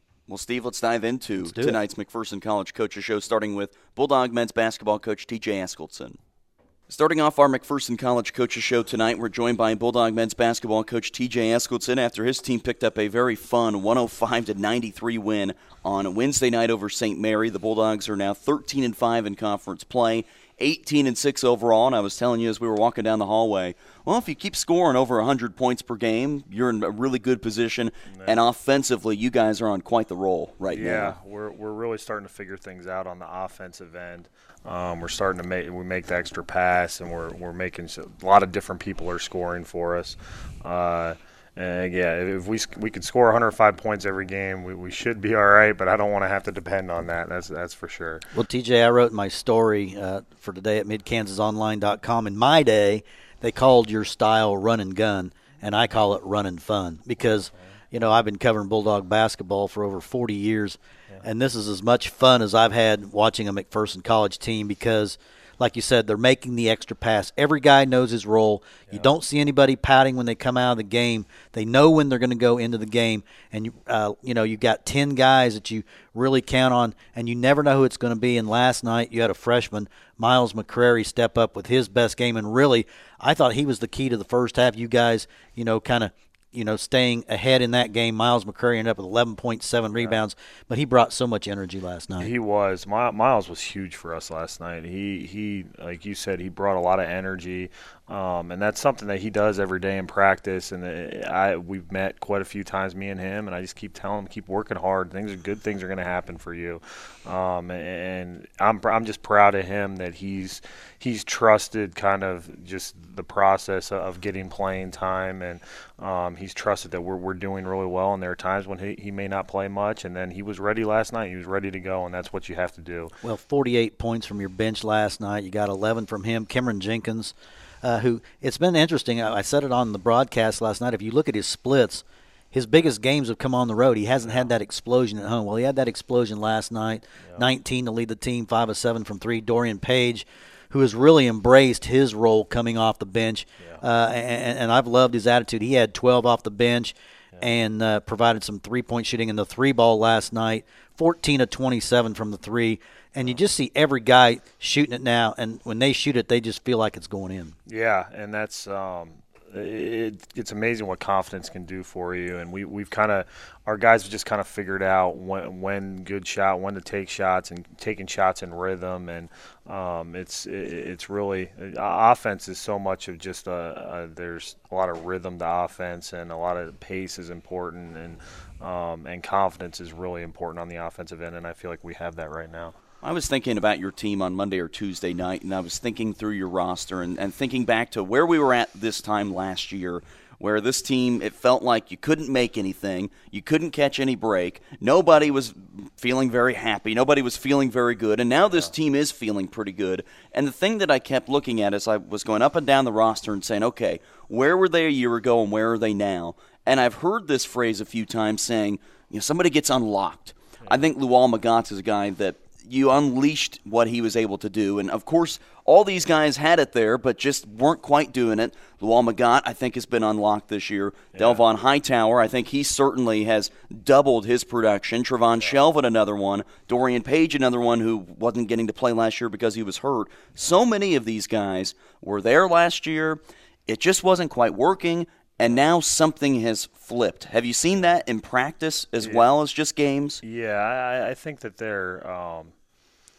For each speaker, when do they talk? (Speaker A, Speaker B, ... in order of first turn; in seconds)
Speaker A: 0.3-6.2, 6.9-31.2, 183.0-240.2
Speaker B: 1.4-1.8, 48.3-92.3, 123.2-157.6
Speaker C: 30.7-48.2, 92.2-123.1, 157.7-182.8, 221.2-221.4, 239.0-239.3, 240.2-242.5